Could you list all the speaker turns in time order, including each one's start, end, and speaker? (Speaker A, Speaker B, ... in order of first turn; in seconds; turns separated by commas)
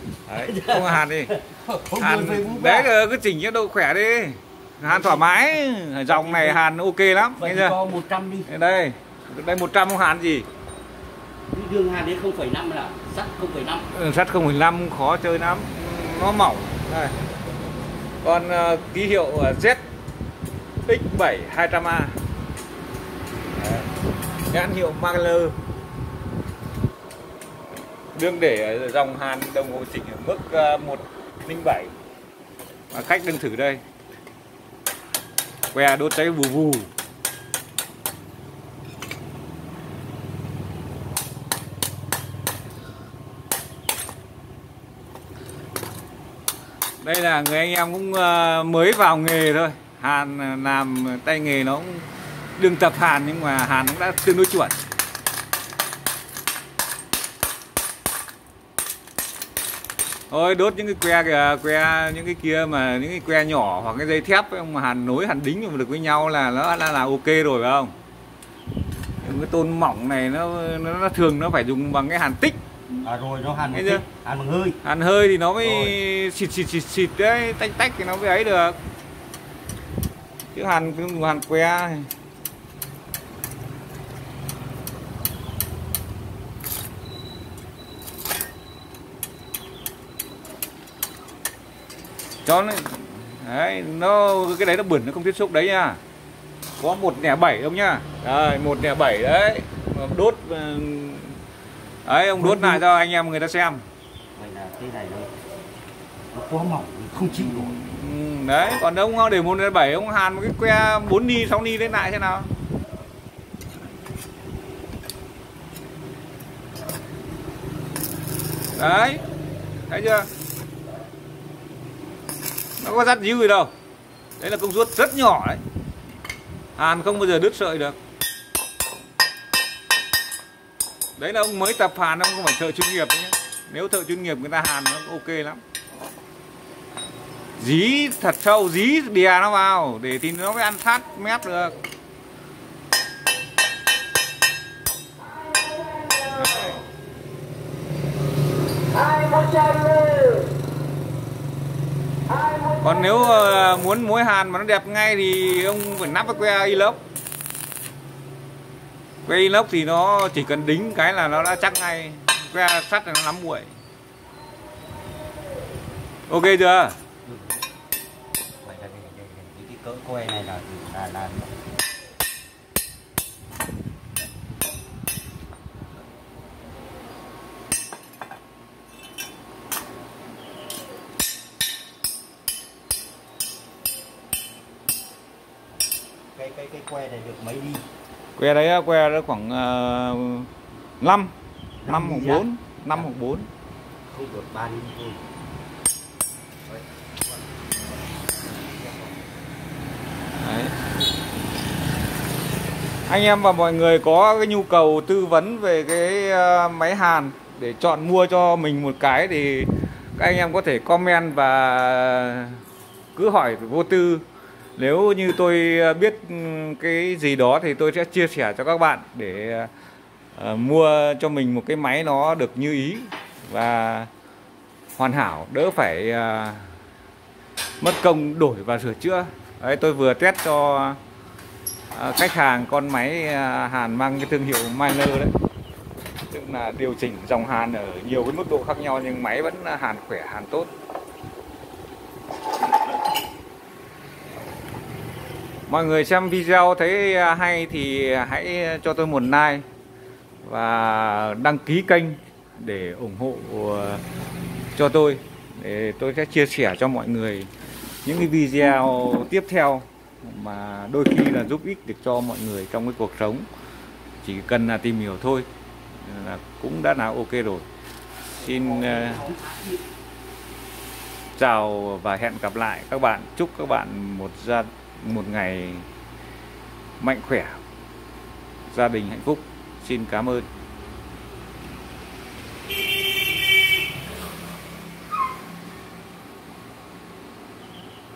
Speaker A: 0.3-1.3, Speaker B: 0.4-2.9, Speaker A: 2.0-7.8, Speaker B: 4.8-5.5, Speaker B: 6.1-6.6, Speaker B: 7.3-8.5, Speaker A: 8.5-10.5, Speaker B: 11.5-13.9, Speaker A: 13.9-17.1, Speaker A: 18.2-19.8, Speaker A: 20.9-22.2, Speaker A: 23.6-23.9, Speaker A: 24.5-25.6, Speaker A: 28.1-31.9, Speaker A: 32.9-33.8, Speaker A: 35.7-36.9, Speaker A: 47.0-54.8, Speaker A: 60.3-67.9, Speaker A: 69.2-72.6, Speaker B: 73.0-74.8, Speaker A: 73.7-74.0, Speaker A: 74.8-78.8, Speaker B: 75.7-75.9, Speaker A: 80.5-82.1, Speaker A: 92.5-96.0, Speaker A: 96.8-101.4, Speaker A: 102.1-103.8, Speaker B: 102.4-102.8, Speaker B: 104.4-105.3, Speaker B: 106.3-107.8, Speaker A: 107.2-112.5, Speaker A: 118.8-119.2, Speaker A: 119.9-120.3, Speaker A: 122.8-123.7, Speaker A: 124.4-125.6, Speaker A: 126.8-128.0, Speaker A: 131.2-135.6, Speaker A: 137.6-141.8, Speaker A: 146.2-146.8, Speaker A: 152.8-157.0, Speaker A: 159.3-163.7, Speaker A: 166.3-166.9, Speaker B: 167.3-167.6, Speaker B: 168.6-171.5, Speaker B: 186.3-187.8, Speaker A: 188.4-190.5, Speaker A: 191.0-191.3, Speaker B: 191.8-193.1, Speaker A: 191.9-193.5, Speaker B: 194.1-195.2, Speaker B: 198.3-199.2, Speaker A: 200.4-200.8, Speaker A: 203.1-212.6, Speaker A: 213.2-214.2, Speaker A: 214.8-219.7, Speaker A: 220.3-224.1, Speaker A: 225.0-226.7, Speaker A: 227.8-231.0, Speaker A: 231.9-235.3, Speaker A: 236.3-240.7, Speaker A: 245.7-249.7, Speaker A: 250.4-254.0, Speaker A: 254.8-257.5, Speaker A: 258.1-263.5, Speaker A: 264.2-265.5, Speaker A: 266.0-267.7, Speaker A: 268.4-269.2, Speaker B: 268.4-269.8, Speaker A: 271.4-275.9, Speaker A: 277.0-277.6, Speaker A: 278.7-280.4